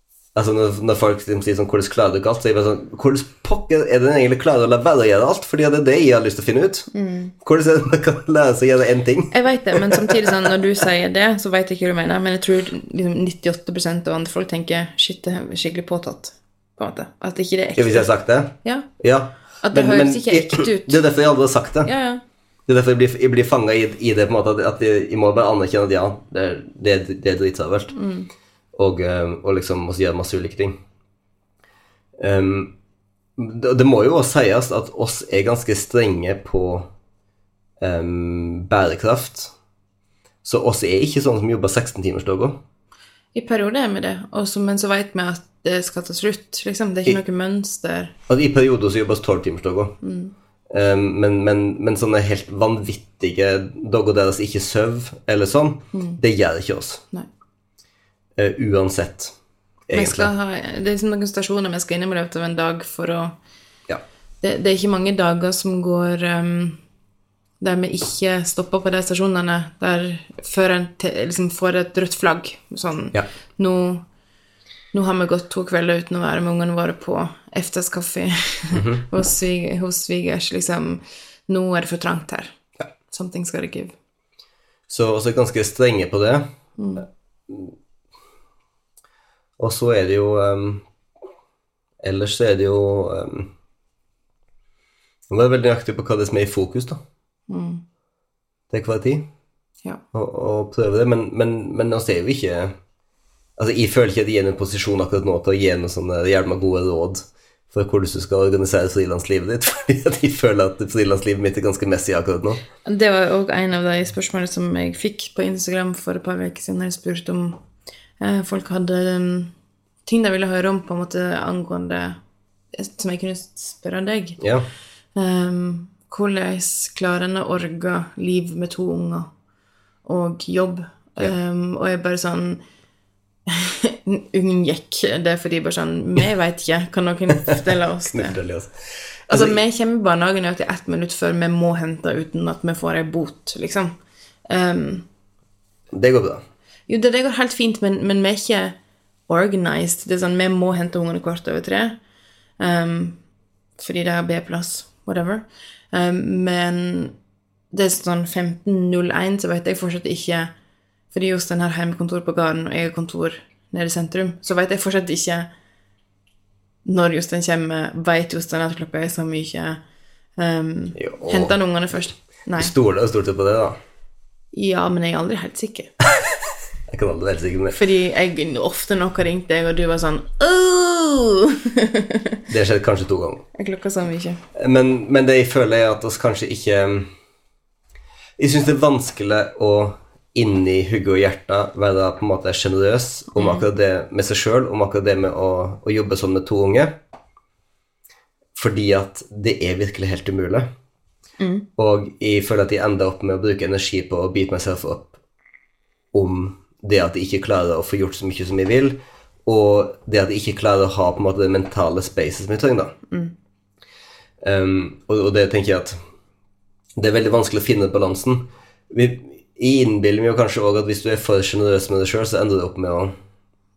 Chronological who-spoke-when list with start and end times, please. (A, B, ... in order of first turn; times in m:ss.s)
0:00.3-0:06.9 A
0:06.9-0:07.3 B
0:07.4-0:10.3 A
0:09.3-0:18.1 B
0:17.8-0:21.9 A
0:18.6-0:18.9 B
0:19.6-0:21.0 B
0:21.8-0:22.2 B
0:22.7-0:27.9 A
0:27.9-0:28.3 B
0:28.7-0:30.8 A
0:32.2-0:32.7 A
0:33.4-0:36.9 A
0:37.8-0:39.5 A
0:40.4-0:42.6 A
0:43.3-0:48.1 B
0:48.3-0:49.9 A
0:50.0-0:50.3 B
0:50.7-0:57.0 A
0:55.9-0:56.2 B
0:58.4-0:59.3 A
0:59.9-1:00.3 A
0:59.9-1:03.3 B
1:04.4-1:06.8 B
1:07.6-1:14.0 B
1:14.9-1:22.5 B
1:18.7-1:19.0 A
1:23.1-1:23.9 B
1:24.9-1:26.4 A
1:26.8-1:27.0 B
1:27.5-1:27.7 A
1:29.6-1:30.8 A
1:32.0-1:33.5 A
1:35.3-1:37.0 A
1:37.5-1:37.8 B
1:38.7-1:39.2 A
1:40.1-1:42.7 A
1:43.6-1:52.6 A
1:52.8-1:57.6 B
1:58.2-1:59.5 B
2:00.0-2:02.2 B
2:02.8-2:04.4 B
2:04.4-2:04.6 A
2:05.1-2:09.3 B
2:10.0-2:12.6 B
2:13.5-2:18.4 B
2:18.0-2:18.7 A
2:19.3-2:19.6 A
2:19.3-2:23.9 B
2:24.5-2:25.0 B
2:25.9-2:26.4 A
2:26.9-2:28.7 B
2:29.3-2:32.0 B
2:32.6-2:33.2 B
2:33.8-2:37.1 B
2:37.7-2:40.5 B
2:41.1-2:45.5 B
2:46.8-2:49.8 B
2:50.4-2:52.7 B
2:51.0-2:51.6 A
2:52.6-2:53.8 A
2:54.5-2:55.9 B
2:56.9-2:57.8 A
2:57.7-3:02.4 B
3:02.5-3:03.4 A
3:03.5-3:04.4 B
3:04.5-3:07.1 A
3:08.4-3:17.0 A
3:13.3-3:13.6 B
3:18.5-3:20.7 A
3:21.4-3:21.6 B
3:21.8-3:25.1 A
3:26.1-3:32.9 A
3:34.4-3:36.0 A
3:37.0-3:43.1 A